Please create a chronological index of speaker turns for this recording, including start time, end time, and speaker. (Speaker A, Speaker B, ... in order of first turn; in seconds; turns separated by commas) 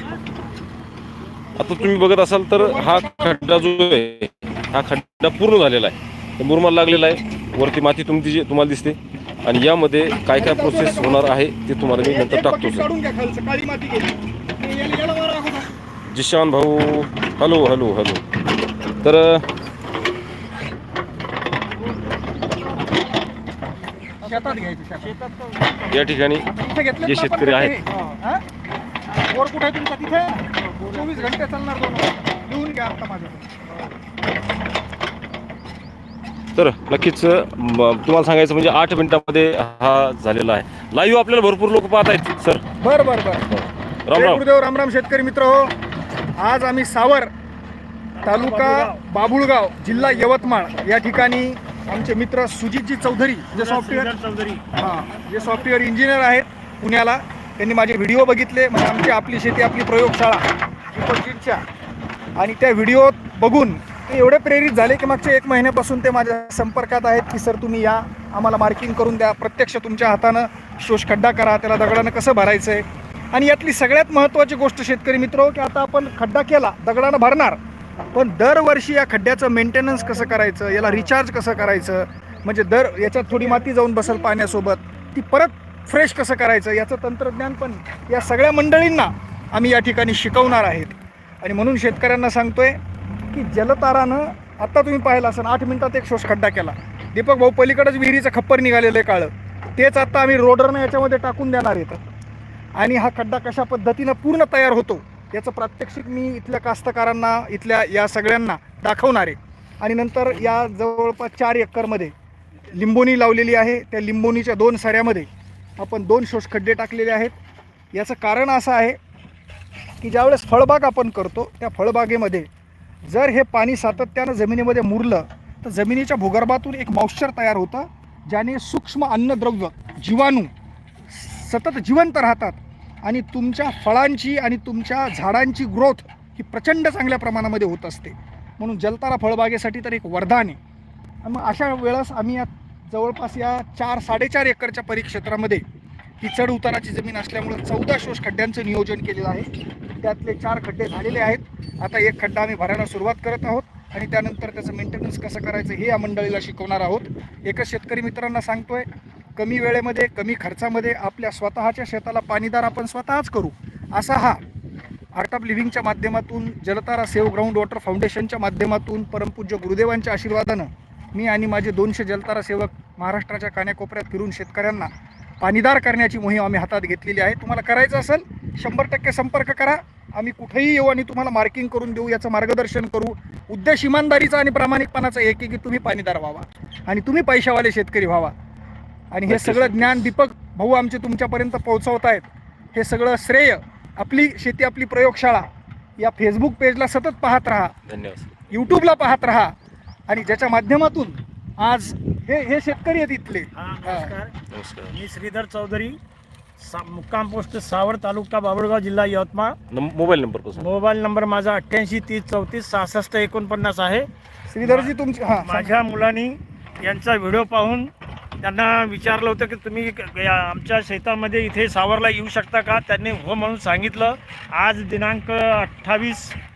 Speaker A: 1.5-12.9, Speaker B: 2.5-3.8, Speaker B: 10.3-11.4, Speaker B: 11.9-15.7, Speaker A: 16.1-18.2, Speaker A: 19.0-19.4, Speaker C: 21.8-23.3, Speaker C: 24.0-26.0, Speaker B: 24.2-25.1, Speaker A: 25.9-26.5, Speaker B: 26.4-28.4, Speaker A: 27.0-27.8, Speaker C: 27.9-28.2, Speaker B: 29.2-33.5, Speaker C: 30.5-31.4, Speaker C: 33.7-34.0, Speaker A: 36.5-42.6, Speaker B: 42.8-43.5, Speaker A: 43.5-44.4, Speaker B: 44.1-45.7, Speaker B: 46.4-47.3, Speaker C: 48.1-49.0, Speaker B: 48.2-54.1, Speaker C: 49.8-50.7, Speaker C: 53.5-54.6, Speaker B: 54.7-61.6, Speaker B: 62.4-77.6, Speaker B: 78.1-92.8, Speaker B: 93.3-102.0, Speaker B: 102.8-112.1, Speaker B: 112.7-117.3, Speaker B: 117.9-119.0, Speaker B: 120.0-122.5, Speaker B: 123.0-130.5, Speaker B: 131.1-140.6, Speaker B: 141.2-145.6, Speaker B: 146.2-164.4, Speaker B: 165.1-174.9, Speaker B: 175.4-188.3, Speaker B: 189.1-195.5, Speaker A: 189.3-190.1, Speaker B: 196.0-197.7, Speaker A: 197.9-198.4, Speaker B: 198.5-199.5, Speaker B: 200.1-204.1, Speaker C: 203.5-204.3, Speaker A: 204.5-204.9, Speaker C: 204.9-206.0, Speaker C: 206.6-209.6, Speaker A: 209.7-210.7, Speaker C: 210.5-214.1, Speaker B: 214.5-215.8, Speaker C: 214.6-226.4